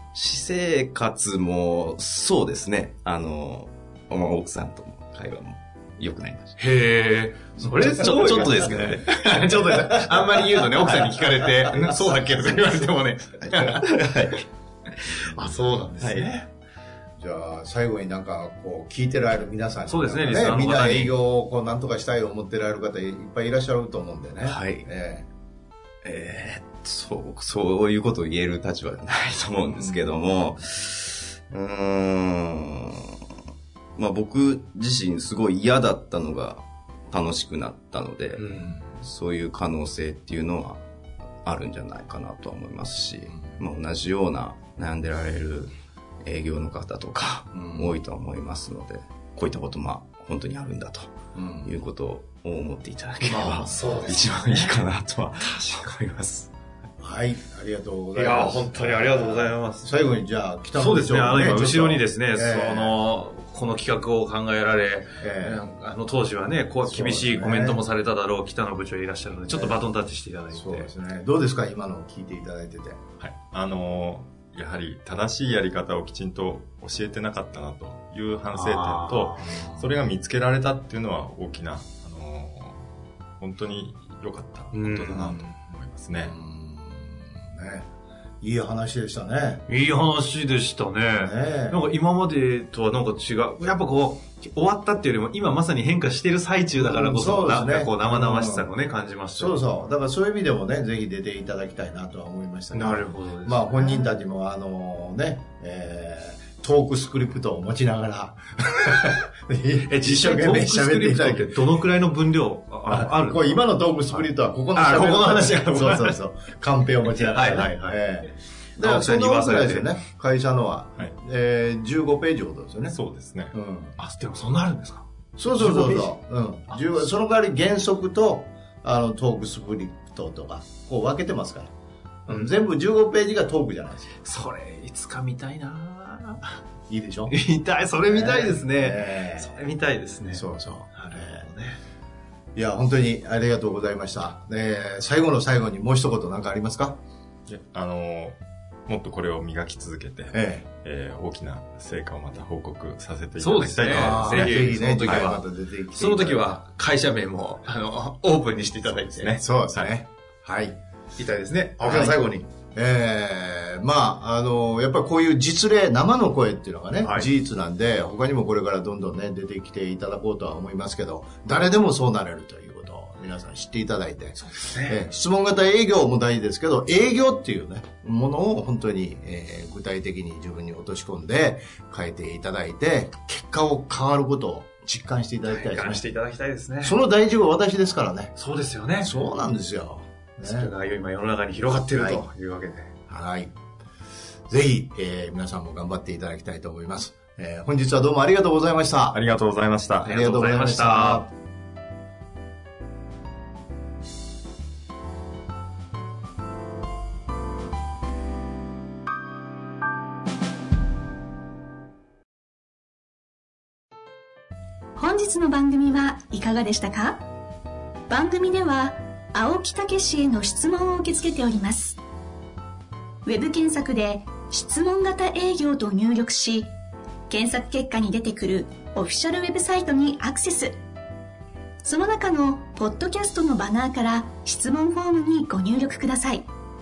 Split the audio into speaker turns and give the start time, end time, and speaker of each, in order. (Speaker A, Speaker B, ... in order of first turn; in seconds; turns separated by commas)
Speaker A: 0.1-6.6, Speaker B: 6.6-13.9, Speaker A: 7.6-9.4, Speaker C: 11.7-12.4, Speaker A: 13.4-15.2, Speaker B: 15.2-16.5, Speaker A: 16.0-16.3, Speaker C: 17.2-25.3, Speaker B: 19.9-21.1, Speaker A: 24.4-24.9, Speaker A: 26.0-33.2, Speaker C: 29.7-30.1, Speaker A: 34.0-40.8, Speaker B: 38.4-38.8, Speaker A: 41.4-45.7, Speaker C: 43.3-43.6, Speaker A: 46.2-56.5, Speaker C: 47.5-48.0, Speaker C: 51.3-51.7, Speaker B: 53.2-54.8, Speaker C: 57.0-63.0, Speaker B: 58.1-60.0, Speaker B: 60.7-70.9, Speaker C: 65.2-65.6, Speaker C: 66.9-67.8, Speaker C: 69.5-69.8, Speaker C: 70.5-73.0, Speaker D: 73.2-86.3, Speaker B: 78.5-79.5, Speaker C: 79.4-79.9, Speaker B: 84.7-85.4, Speaker C: 85.1-85.4, Speaker C: 86.2-87.9, Speaker C: 88.4-89.6, Speaker B: 89.7-99.6, Speaker C: 91.2-91.8, Speaker C: 96.8-98.7, Speaker C: 99.3-111.6, Speaker B: 102.7-104.1, Speaker B: 109.9-116.2, Speaker C: 112.9-123.0, Speaker B: 117.2-118.0, Speaker B: 118.8-119.9, Speaker D: 122.9-123.5, Speaker C: 123.5-124.0, Speaker B: 124.0-126.1, Speaker C: 125.4-131.7, Speaker C: 132.2-134.2, Speaker B: 132.3-132.5, Speaker B: 134.2-136.6, Speaker C: 136.9-137.3, Speaker B: 137.3-141.8, Speaker C: 138.1-139.5, Speaker C: 140.3-141.4, Speaker C: 142.5-147.0, Speaker D: 147.5-154.7, Speaker C: 150.3-150.6, Speaker B: 153.4-159.4, Speaker C: 153.8-156.6, Speaker D: 159.0-159.9, Speaker C: 159.3-160.8, Speaker B: 161.2-162.5, Speaker C: 161.8-162.2, Speaker C: 162.7-186.1, Speaker B: 167.0-167.3, Speaker B: 174.4-175.0, Speaker B: 185.4-187.0, Speaker C: 186.8-188.3, Speaker B: 188.4-189.1, Speaker C: 189.0-190.7, Speaker B: 190.4-192.9, Speaker C: 191.9-192.2, Speaker C: 193.1-193.5, Speaker C: 194.5-199.2, Speaker D: 199.1-200.1, Speaker C: 200.0-201.3, Speaker B: 200.0-201.3, Speaker E: 215.0-217.2, Speaker E: 218.1-222.0, Speaker E: 223.2-226.7, Speaker E: 227.3-230.8, Speaker E: 231.8-236.4